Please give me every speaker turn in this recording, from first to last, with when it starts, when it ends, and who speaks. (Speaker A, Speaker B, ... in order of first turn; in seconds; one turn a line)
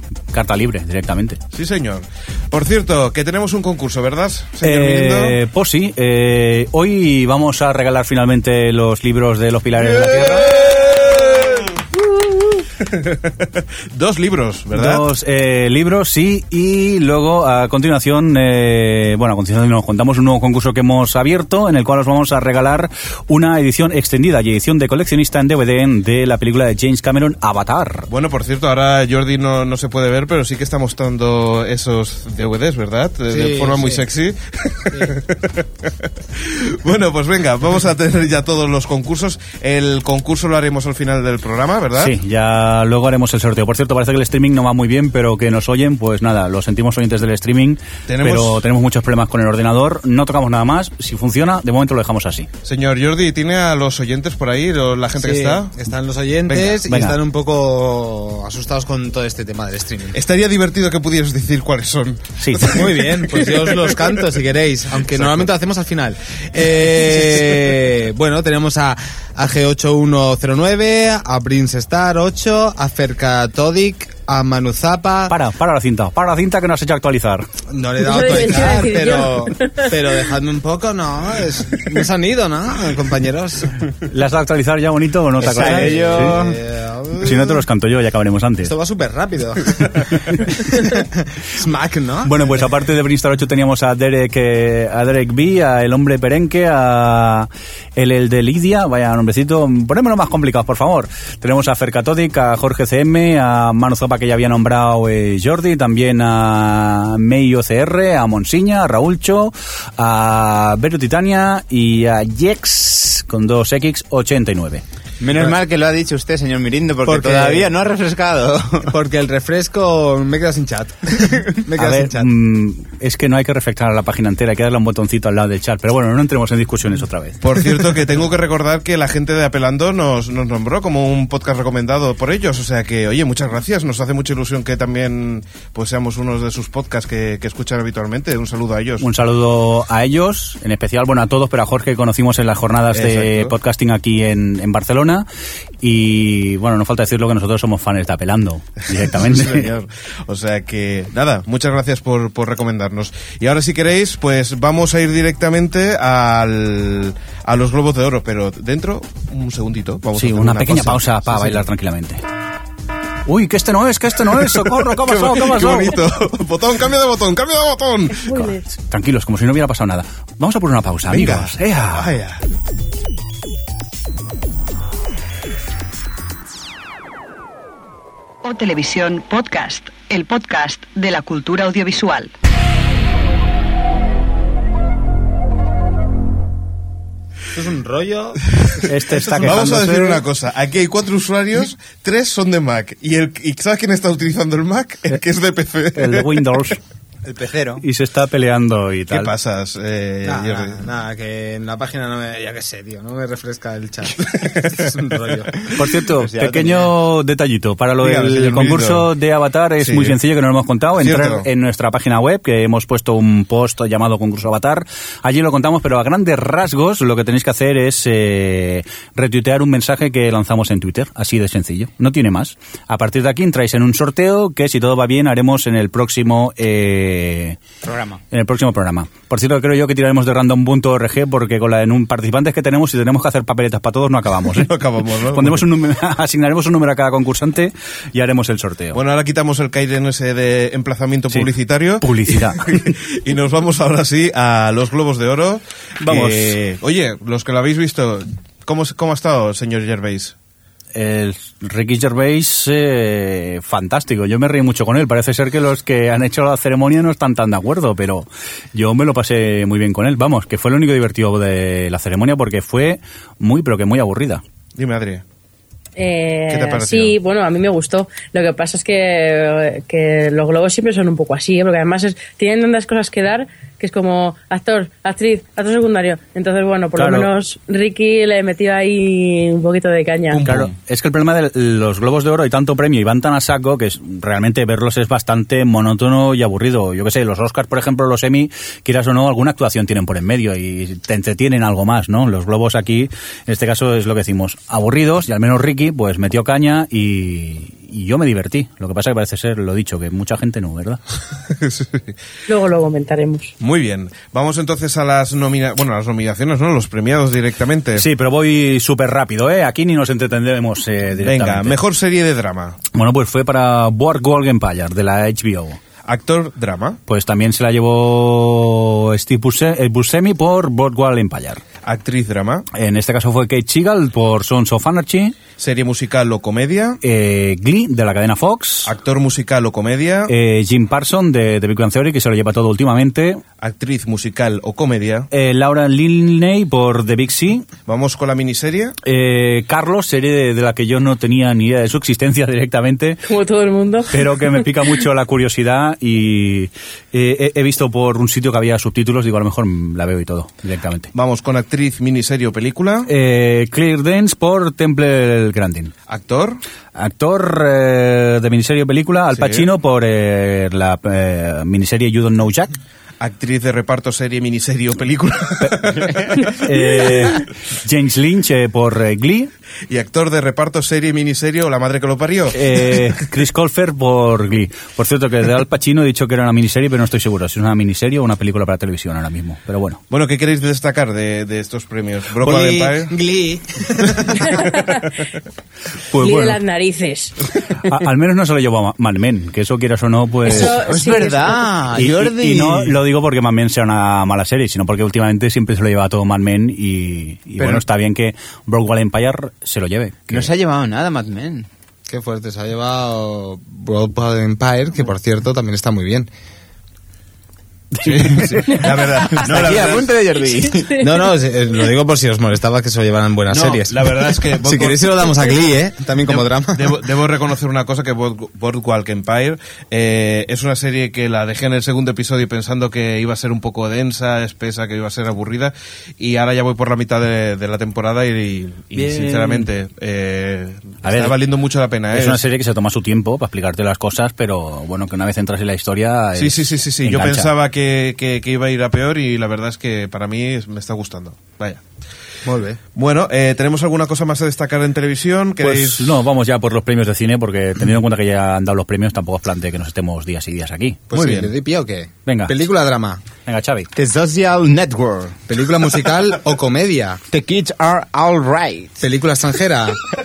Speaker A: 0.3-1.4
Speaker B: 1.5-5.3
Speaker A: 4.6-10.5
Speaker B: 9.8-15.0
Speaker A: 14.7-28.1
Speaker B: 28.1-42.1
Speaker C: 33.3-34.1
Speaker A: 42.0-52.5
Speaker B: 48.1-48.6
Speaker B: 52.6-55.7
Speaker C: 55.2-60.2
Speaker B: 56.5-56.8
Speaker A: 56.8-57.2
Speaker B: 60.1-64.1
Speaker A: 62.4-62.7
Speaker C: 62.7-75.3
Speaker B: 65.1-65.4
Speaker A: 75.3-77.5
Speaker C: 77.7-83.8
Speaker D: 78.0-79.9
Speaker A: 84.1-86.4
Speaker E: 85.4-86.6
Speaker C: 85.4-87.6
Speaker A: 87.2-88.7
Speaker C: 88.6-92.4
Speaker A: 92.2-114.8
Speaker E: 115.2-118.9
Speaker C: 117.0-117.7
Speaker C: 118.9-122.3
Speaker A: 121.8-127.4
Speaker B: 127.4-139.1
Speaker A: 139.0-145.2
Speaker B: 142.9-143.5
Speaker A: 145.8-149.7
Speaker B: 149.1-161.6
Speaker A: 160.2-162.2
Speaker A: 163.2-166.0
Speaker B: 164.7-168.4
Speaker D: 168.1-168.6
Speaker A: 168.9-172.1
Speaker B: 171.1-172.4
Speaker F: 178.4-182.3
Speaker C: 187.5-188.4
Speaker A: 188.9-190.2
Speaker C: 189.1-189.6
Speaker B: 189.3-196.3
Speaker A: 195.9-196.8
Speaker E: 197.2-197.8
Speaker A: 197.8-199.3
Speaker B: 199.1-200.8
Speaker C: 200.2-205.7
Speaker B: 204.3-204.8
Speaker A: 205.7-227.6
Speaker E: 206.2-206.9
Speaker B: 208.0-209.1
Speaker B: 209.8-210.2
Speaker B: 211.0-211.5
Speaker E: 227.8-228.2
Speaker A: 228.3-234.7
Speaker B: 234.6-235.6
Speaker A: 235.3-239.0
Speaker B: 238.9-250.3
Speaker A: 242.0-242.8
Speaker A: 246.0-246.6
Speaker A: 250.9-264.4
Speaker B: 264.8-265.2
Speaker D: 266.0-280.4
Speaker B: 266.5-267.2
Speaker A: 276.9-277.3
Speaker B: 280.3-280.7
Speaker A: 280.4-301.0
Speaker B: 301.6-302.1
Speaker D: 302.5-303.5
Speaker B: 303.6-308.1
Speaker A: 307.9-311.8
Speaker B: 311.2-312.8
Speaker A: 312.9-315.8
Speaker B: 316.1-317.0
Speaker A: 317.1-321.6
Speaker B: 321.9-322.7
Speaker A: 322.7-325.4
Speaker B: 325.6-327.0
Speaker A: 327.0-328.9
Speaker B: 328.9-330.3
Speaker A: 330.3-333.4
Speaker B: 333.6-335.3
Speaker A: 335.3-337.7
Speaker B: 337.9-338.9
Speaker A: 339.1-343.2
Speaker D: 343.2-344.1
Speaker A: 344.1-351.1
Speaker B: 351.1-353.1
Speaker A: 353.1-355.9
Speaker B: 356.1-356.6
Speaker A: 356.9-362.7
Speaker B: 359.3-359.7
Speaker B: 363.2-367.1
Speaker A: 366.5-369.5
Speaker B: 369.9-372.6
Speaker A: 372.5-380.0
Speaker B: 380.1-383.1
Speaker C: 383.1-384.4
Speaker B: 384.2-384.9
Speaker D: 384.5-385.0
Speaker A: 386.1-386.6
Speaker D: 386.2-387.3
Speaker A: 387.8-390.8
Speaker D: 390.4-391.7
Speaker E: 390.5-392.9
Speaker A: 391.9-400.5
Speaker E: 400.3-401.7
Speaker C: 402.1-406.3
Speaker A: 407.9-408.8
Speaker B: 408.0-410.2
Speaker E: 409.4-411.1
Speaker C: 410.9-417.0
Speaker B: 413.5-415.4
Speaker B: 416.3-432.4
Speaker A: 428.9-429.7
Speaker A: 431.0-431.4
Speaker A: 432.1-437.5
Speaker B: 436.4-441.8
Speaker C: 442.4-442.8
Speaker B: 442.9-446.1
Speaker A: 445.6-451.0
Speaker C: 451.1-453.2
Speaker B: 451.1-451.5
Speaker A: 452.3-452.5
Speaker A: 453.4-453.9
Speaker E: 453.9-455.4
Speaker C: 455.5-457.2
Speaker E: 457.3-459.0
Speaker C: 459.0-460.0